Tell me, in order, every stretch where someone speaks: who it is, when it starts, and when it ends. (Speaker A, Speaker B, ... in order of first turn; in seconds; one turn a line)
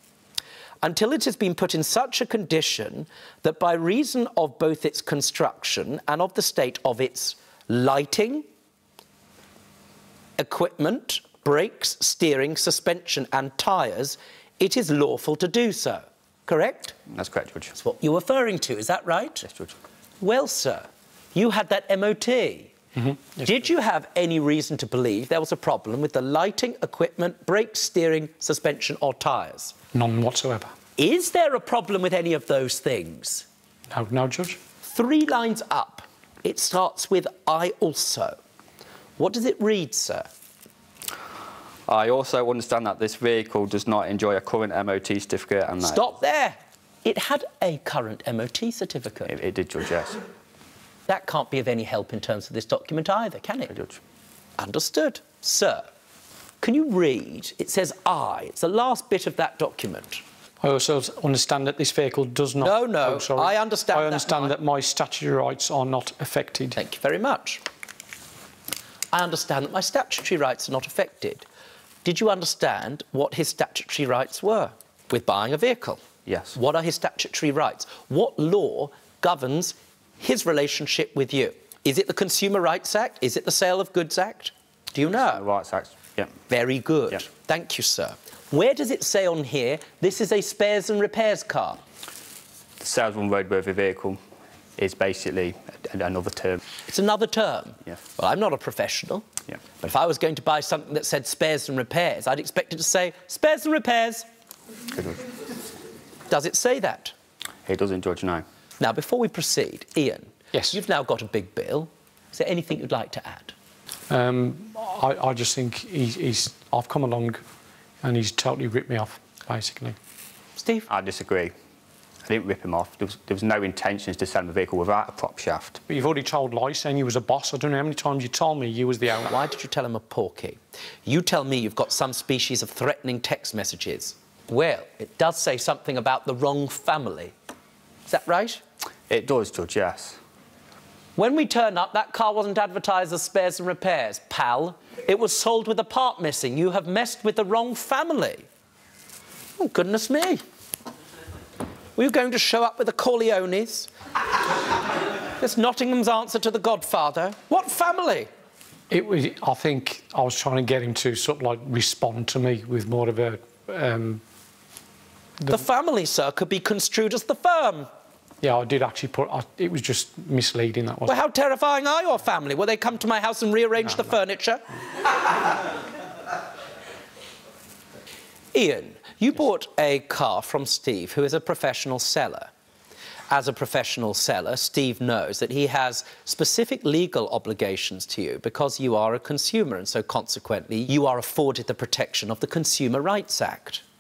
Speaker A: 0.8-8.4
Speaker A: 10.4-17.0
Speaker B: 17.1-17.8
Speaker A: 17.8-19.5
Speaker B: 19.4-19.8
Speaker A: 20.2-22.7
Speaker A: 23.4-29.8
Speaker C: 29.9-30.7
Speaker A: 31.0-33.5
Speaker C: 33.9-34.6
Speaker A: 34.8-38.4
Speaker A: 39.2-40.3
Speaker B: 41.9-46.1
Speaker A: 45.8-49.4
Speaker B: 49.3-50.2
Speaker A: 51.1-53.8
Speaker B: 53.7-54.0
Speaker A: 54.6-55.9
Speaker A: 56.6-60.2
Speaker C: 60.6-66.8
Speaker A: 62.6-64.5
Speaker A: 66.8-67.6
Speaker A: 69.1-71.5
Speaker A: 72.0-76.0
Speaker B: 76.3-76.6
Speaker A: 76.5-85.5
Speaker B: 85.1-86.4
Speaker A: 86.5-91.8
Speaker B: 92.8-94.2
Speaker B: 94.8-96.6
Speaker A: 96.9-99.3
Speaker A: 99.8-104.2
Speaker B: 105.0-105.2
Speaker A: 106.3-107.1
Speaker B: 107.7-108.4
Speaker A: 108.8-113.5
Speaker C: 114.1-117.4
Speaker C: 118.0-120.0
Speaker A: 120.6-120.9
Speaker B: 120.9-121.5
Speaker B: 122.3-125.8
Speaker C: 125.9-129.3
Speaker A: 129.2-137.3
Speaker A: 138.1-138.6
Speaker B: 139.1-140.2
Speaker A: 141.2-148.4
Speaker A: 149.6-150.4
Speaker A: 152.0-153.9
Speaker A: 155.4-158.3
Speaker C: 158.9-164.2
Speaker A: 165.5-167.9
Speaker C: 168.4-171.2
Speaker A: 171.1-175.3
Speaker A: 178.5-182.5
Speaker A: 183.3-193.8